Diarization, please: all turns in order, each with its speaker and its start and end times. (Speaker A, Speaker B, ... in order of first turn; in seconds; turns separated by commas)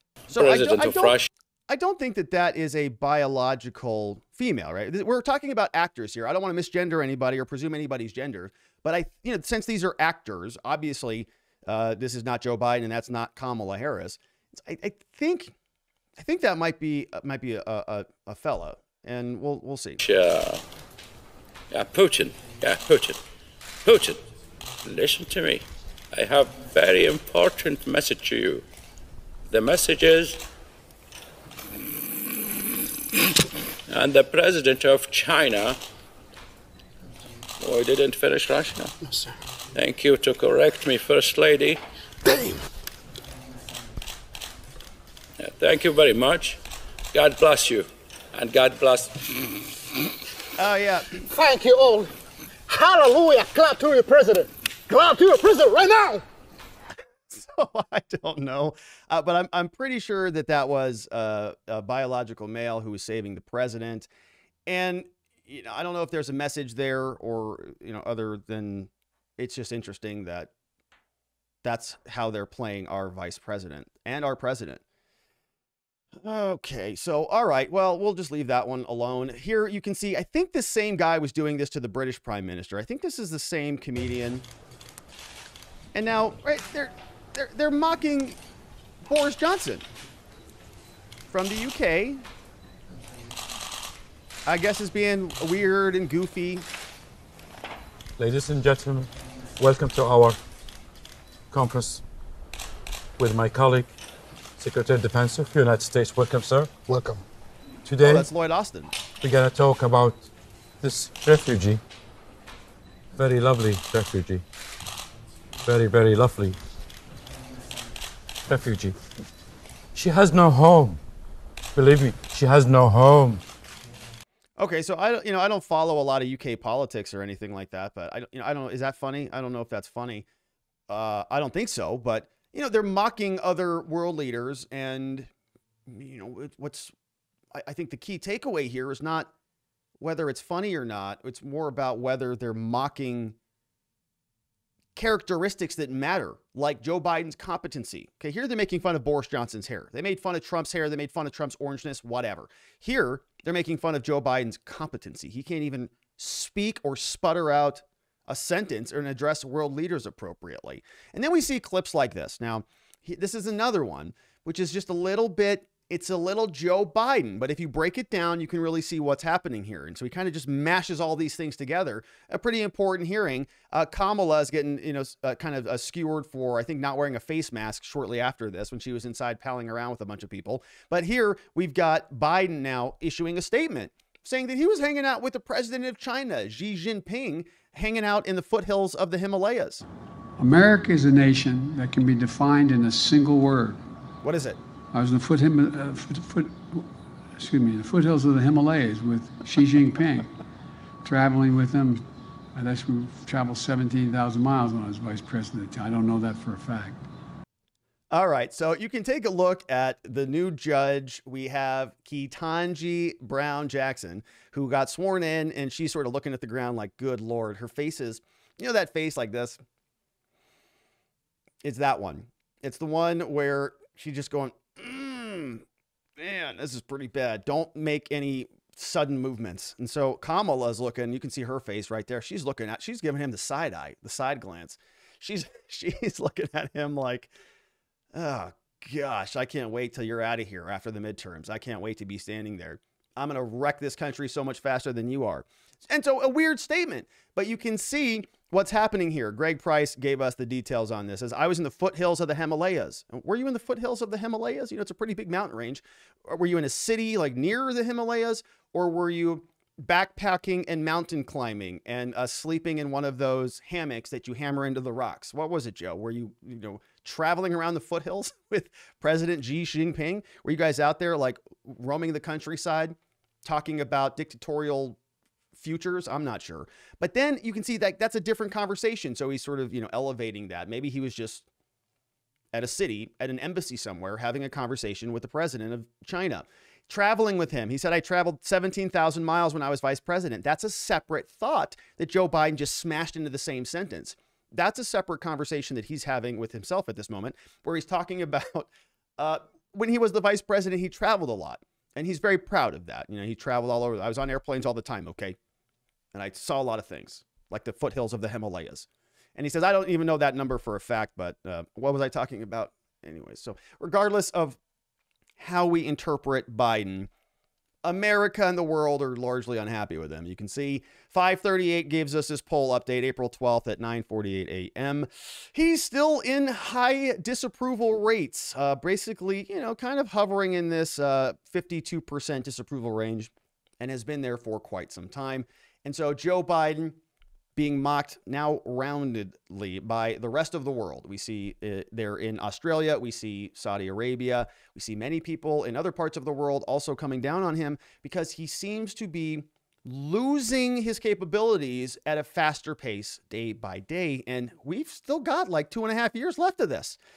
Speaker A: 0.3-15.5, Speaker B: 0.4-1.3, Speaker A: 16.2-20.0, Speaker B: 20.0-20.6, Speaker B: 21.7-23.2, Speaker B: 23.9-24.2, Speaker B: 24.8-28.7, Speaker B: 29.5-30.4, Speaker B: 33.9-35.8, Speaker B: 37.6-38.9, Speaker B: 39.7-41.8, Speaker B: 45.4-46.6, Speaker B: 47.1-49.6, Speaker A: 50.5-51.2, Speaker C: 51.3-52.1, Speaker C: 52.7-56.2, Speaker A: 57.3-64.1, Speaker A: 64.7-70.5, Speaker A: 71.6-74.8, Speaker A: 76.2-84.5, Speaker A: 86.0-88.4, Speaker A: 89.0-89.9, Speaker A: 91.3-92.2, Speaker A: 94.5-96.7, Speaker D: 98.2-100.4, Speaker D: 101.5-102.0, Speaker D: 103.2-103.9, Speaker D: 104.6-106.7, Speaker C: 106.9-107.2, Speaker D: 107.8-108.3, Speaker A: 108.0-108.9, Speaker D: 109.2-110.3, Speaker D: 110.8-111.8, Speaker D: 113.2-114.4, Speaker D: 115.7-116.6, Speaker D: 118.5-119.0, Speaker D: 120.0-121.0, Speaker D: 121.8-123.4, Speaker A: 124.6-130.3, Speaker A: 130.9-135.3, Speaker A: 135.9-136.9, Speaker A: 137.6-139.3, Speaker A: 140.0-143.4, Speaker A: 145.0-189.8, Speaker E: 190.4-193.8, Speaker A: 194.2-194.6, Speaker E: 194.9-200.3, Speaker E: 201.1-207.1, Speaker A: 208.1-219.6, Speaker A: 221.6-225.6, Speaker A: 226.2-237.3, Speaker A: 238.1-275.0, Speaker A: 275.6-281.5, Speaker A: 282.5-305.4, Speaker A: 306.1-314.6, Speaker A: 315.4-317.1, Speaker A: 317.8-337.0, Speaker A: 337.6-357.0